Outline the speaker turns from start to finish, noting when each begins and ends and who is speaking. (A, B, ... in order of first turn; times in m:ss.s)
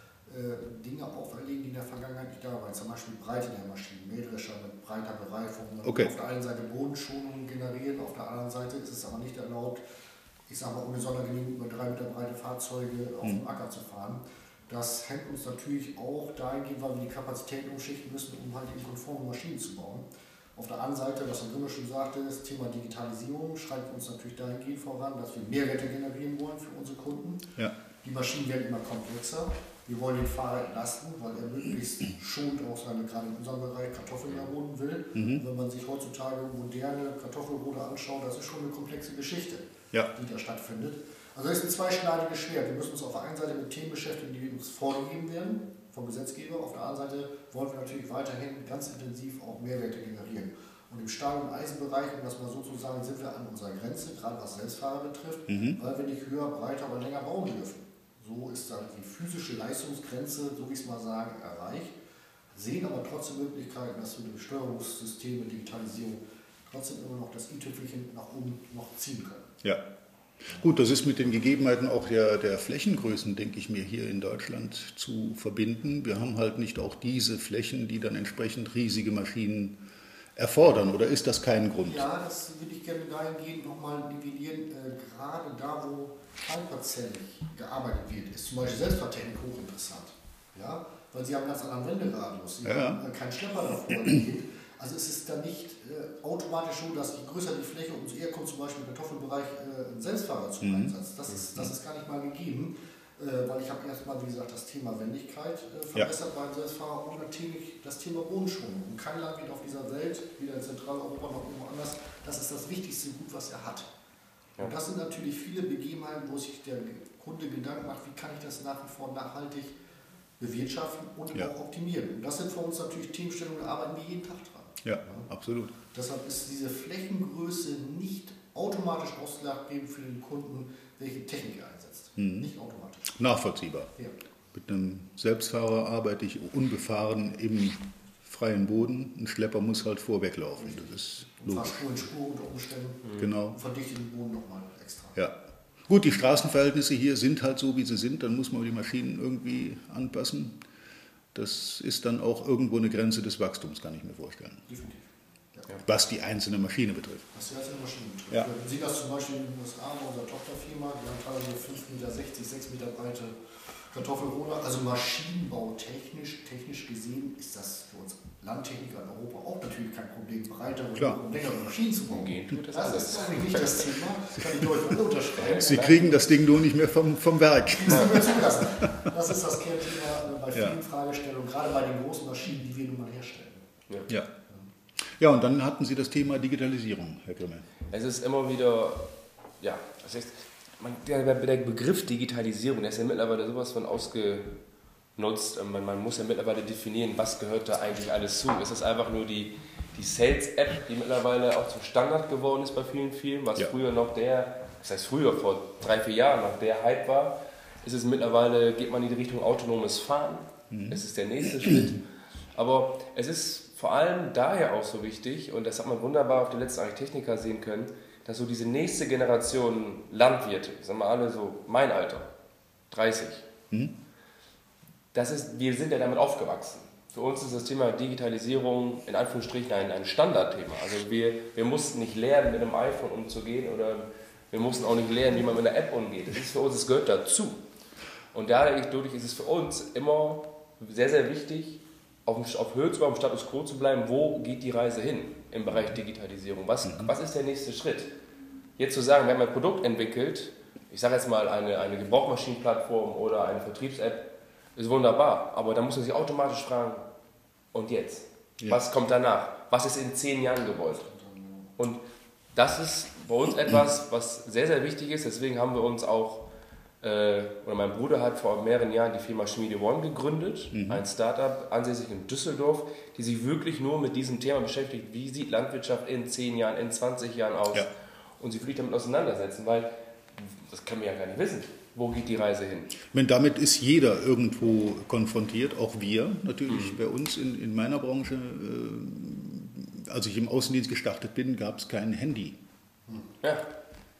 0:00.3-0:09.8 A
0:05.8-0:06.1 B
0:10.5-0:27.5 A
0:28.0-1:02.0 A
0:35.1-0:35.4 B
0:55.5-0:55.8 B
1:02.5-1:09.5 A
1:10.5-1:19.8 B
1:20.4-1:22.1 B
1:21.9-1:53.9 A
1:32.6-1:33.0 B
1:40.6-1:41.0 B
1:54.6-1:59.8 A
2:00.4-2:05.3 A
2:04.8-2:05.8 B
2:05.9-2:13.1 A
2:12.2-2:12.5 B
2:13.1-2:13.9 B
2:14.5-2:21.9 B
2:20.6-2:25.2 A
2:23.1-2:23.6 B
2:25.9-2:30.6 B
2:31.3-2:34.7 B
2:34.7-2:35.8 A
2:35.8-2:37.3 B
2:37.3-2:43.4 A
2:43.9-2:56.3 A
2:51.0-2:51.2 B
2:52.1-2:53.9 C
2:54.4-2:58.8 B
2:55.4-2:56.1 C
2:57.7-3:03.6 A
3:00.5-3:00.8 B
3:04.1-3:04.3 B
3:05.2-3:07.7 B
3:07.9-3:14.6 C
3:15.2-3:32.0 C
3:30.7-3:31.0 B
3:31.6-3:31.9 B
3:32.6-3:42.3 C
3:42.9-3:43.5 C
3:43.7-3:44.0 B
3:45.1-3:57.6 C
3:58.3-4:08.1 C
4:06.8-4:07.1 B
4:08.8-4:17.0 C
4:17.7-4:21.1 C
4:21.0-4:21.7 A
4:22.5-4:42.9 C
4:30.7-4:31.1 B
4:43.1-4:52.6 B
4:46.7-4:47.0 C
4:53.4-4:53.7 C